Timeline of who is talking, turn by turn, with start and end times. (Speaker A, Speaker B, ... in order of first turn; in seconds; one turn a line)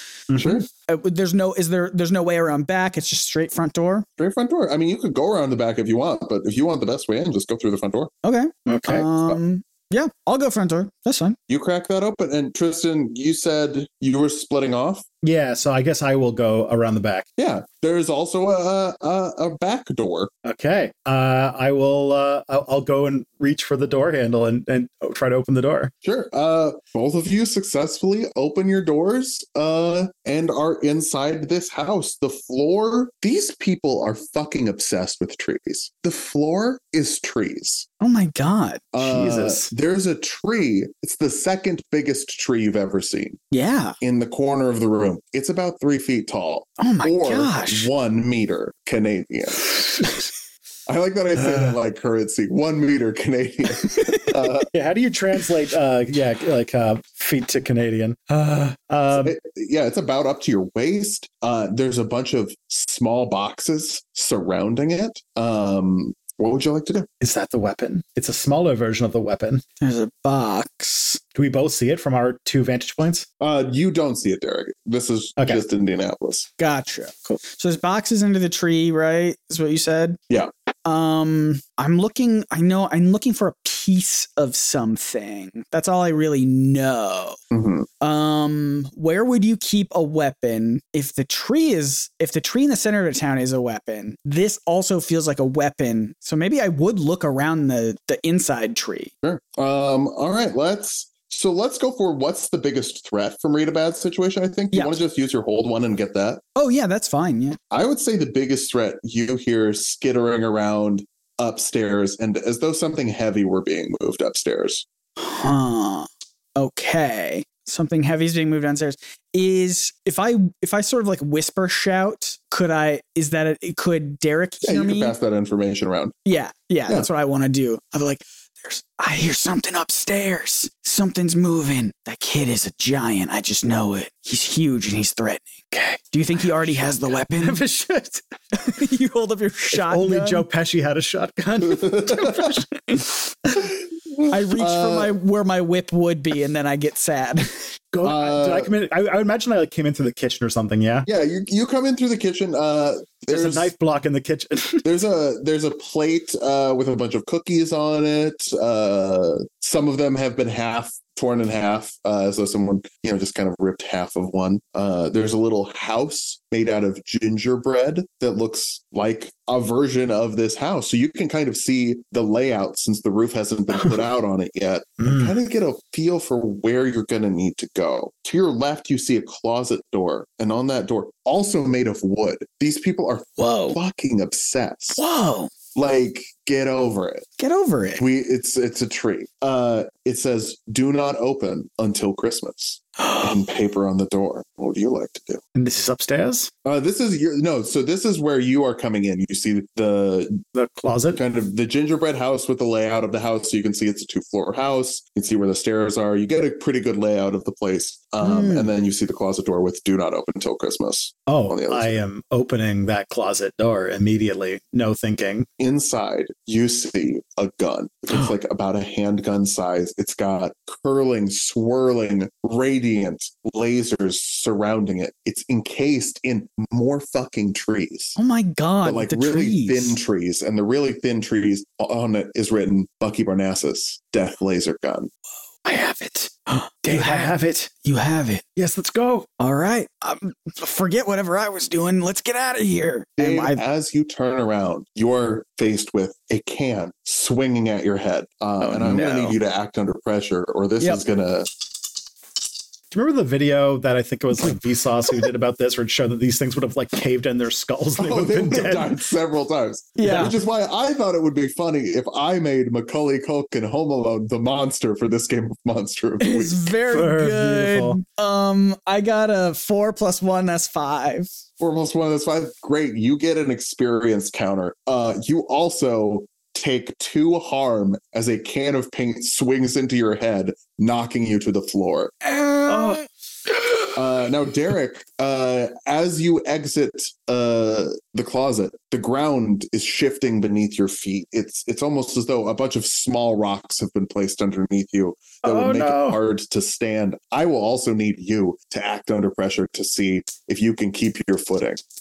Speaker A: 0.3-0.6
Speaker B: 0.3-0.7
Speaker C: 0.7-4.1
Speaker B: 4.2-8.1
Speaker C: 8.2-11.4
Speaker A: 8.7-9.1
Speaker B: 11.5-15.1
Speaker A: 15.2-17.3
Speaker B: 17.4-20.3
Speaker A: 20.4-25.9
Speaker B: 26.0-37.9
Speaker C: 38.0-38.9
Speaker B: 38.9-43.4
Speaker A: 39.0-39.7
Speaker C: 43.5-44.0
Speaker B: 44.0-50.1
Speaker C: 46.8-47.9
Speaker B: 50.9-54.7
Speaker C: 53.9-54.3
Speaker A: 54.7-59.4
Speaker B: 59.1-67.1
Speaker A: 67.2-69.6
Speaker C: 69.8-71.2
Speaker A: 71.3-73.3
Speaker B: 73.4-76.5
Speaker C: 76.6-80.2
Speaker C: 80.9-87.4
Speaker B: 87.5-87.9
Speaker C: 88.0-99.1
Speaker B: 99.2-106.4
Speaker C: 104.7-105.0
Speaker C: 106.6-107.6
Speaker B: 107.7-114.9
Speaker C: 115.2-125.2
Speaker B: 124.6-126.2
Speaker C: 126.3-135.5
Speaker A: 135.7-136.0
Speaker C: 136.1-137.6
Speaker A: 137.3-138.2
Speaker C: 138.6-140.4
Speaker A: 139.7-143.6
Speaker B: 141.7-142.6
Speaker B: 144.1-145.1
Speaker C: 144.3-147.5
Speaker A: 147.9-151.1
Speaker B: 148.0-148.7
Speaker B: 151.1-153.7
Speaker A: 153.3-154.8
Speaker B: 154.8-185.0
Speaker A: 175.0-175.3
Speaker C: 183.4-183.8
Speaker C: 185.0-185.5
Speaker B: 185.8-187.3
Speaker C: 187.4-188.0
Speaker B: 188.0-195.4
Speaker C: 193.0-193.3
Speaker A: 195.6-196.5
Speaker B: 196.7-200.4
Speaker A: 200.5-201.2
Speaker B: 201.1-212.0
Speaker C: 208.2-208.7
Speaker A: 211.3-215.5
Speaker B: 215.6-228.2
Speaker C: 228.2-230.0
Speaker B: 228.8-235.1
Speaker A: 235.7-236.3
Speaker C: 236.5-238.4
Speaker A: 236.8-237.7
Speaker A: 238.6-239.3
Speaker C: 239.4-243.6
Speaker B: 243.2-251.5
Speaker A: 248.6-249.2
Speaker C: 248.8-249.3
Speaker A: 252.9-259.0
Speaker B: 258.0-266.6
Speaker C: 260.0-260.4
Speaker C: 266.2-271.3
Speaker A: 266.9-268.0
Speaker B: 271.6-282.1
Speaker C: 282.2-283.0
Speaker A: 282.7-283.0
Speaker B: 283.9-301.8
Speaker A: 295.4-296.2